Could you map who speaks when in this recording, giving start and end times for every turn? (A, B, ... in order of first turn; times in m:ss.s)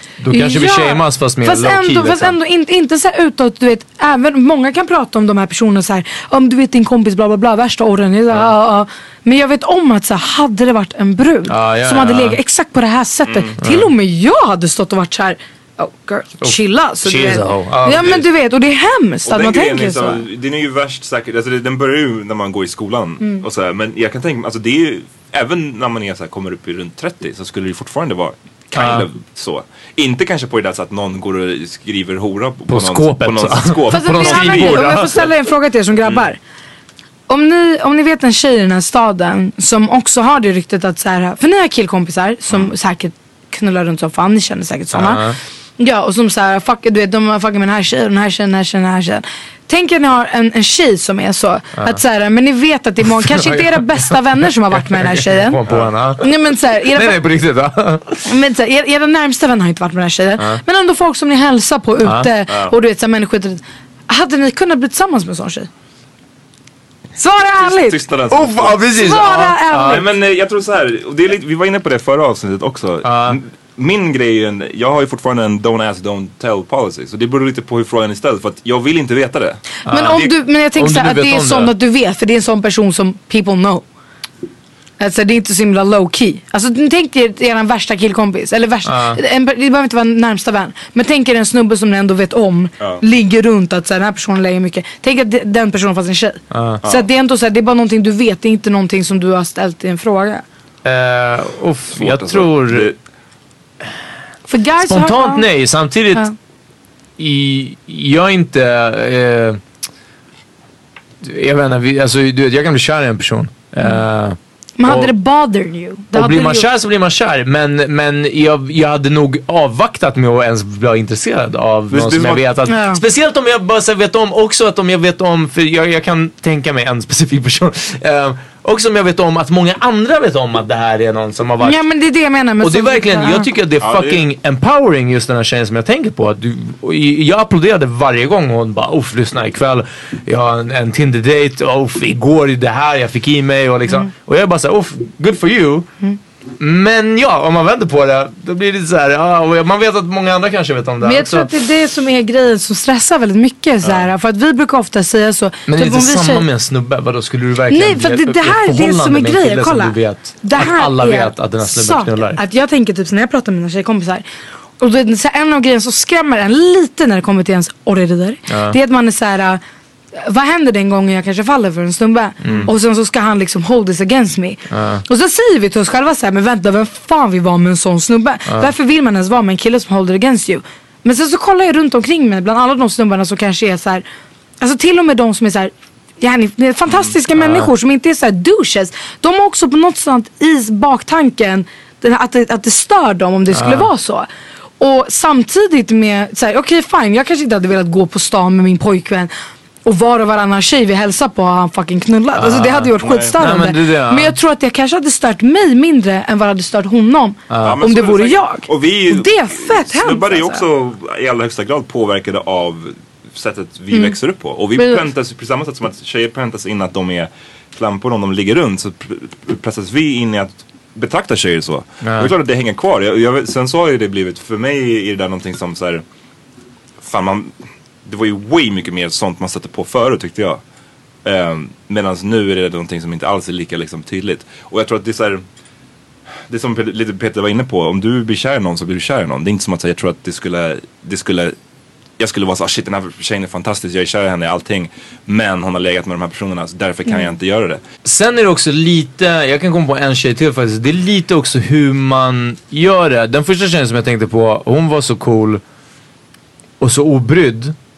0:00.2-0:02.4 A
0:00.3-0:20.2 B
0:11.5-0:12.4 A
0:13.2-0:13.6 C
0:13.6-0:13.9 A
0:16.4-0:18.2 A
0:19.2-0:35.1 C
0:28.7-0:29.1 A
0:32.7-0:35.2 A
0:33.9-0:36.4 B
0:37.3-0:45.2 B
0:44.9-0:45.4 A
0:45.8-0:55.6 B
0:53.0-0:56.2 A
0:55.7-0:55.9 C
0:56.2-0:57.2 B
0:56.9-0:58.2 A
0:58.2-1:05.7 B
1:02.0-1:02.3 A
1:02.5-1:02.7 C
1:07.2-1:08.0 B
1:07.6-1:20.3 C
1:08.3-1:10.0 A
1:08.9-1:10.1 B
1:13.0-1:13.4 A
1:19.8-1:21.7 A
1:19.9-1:23.8 B
1:25.0-1:40.4 B
1:28.8-1:29.2 A
1:36.5-1:36.8 A
1:36.8-1:37.1 C
1:40.8-1:42.9 A
1:41.9-1:43.0 C
1:44.5-1:45.5 B
1:44.8-1:46.3 A
1:47.2-1:49.6 A
1:51.2-1:55.1 A
1:54.8-1:56.7 B
1:56.1-2:11.8 A
2:01.9-2:02.4 C
2:02.7-2:03.0 B
2:11.6-2:13.5 B
2:12.6-2:25.9 A
2:13.8-2:14.2 C
2:26.6-2:31.5 A
2:31.0-2:36.5 B
2:33.8-2:34.1 C
2:35.7-2:42.4 A
2:37.7-2:44.2 B
2:44.8-2:49.6 B
2:48.5-2:48.8 A
2:50.2-3:04.0 B
2:52.4-2:52.7 A
2:54.7-2:55.0 A
3:04.6-3:14.3 B
3:07.4-3:07.7 A
3:13.5-3:13.9 A
3:14.8-3:19.3 B
3:19.8-3:30.6 B
3:22.4-3:24.4 A
3:23.0-3:23.4 C
3:27.5-3:27.8 A
3:27.6-3:46.0 C
3:33.9-3:34.2 B
3:34.8-3:35.0 B
3:42.0-3:42.3 A
3:47.0-3:47.5 C
3:48.0-3:50.6 C
3:51.2-3:55.4 C
3:56.5-4:01.5 C
4:02.2-4:07.8 C
4:08.0-4:15.6 A
4:16.8-4:17.7 A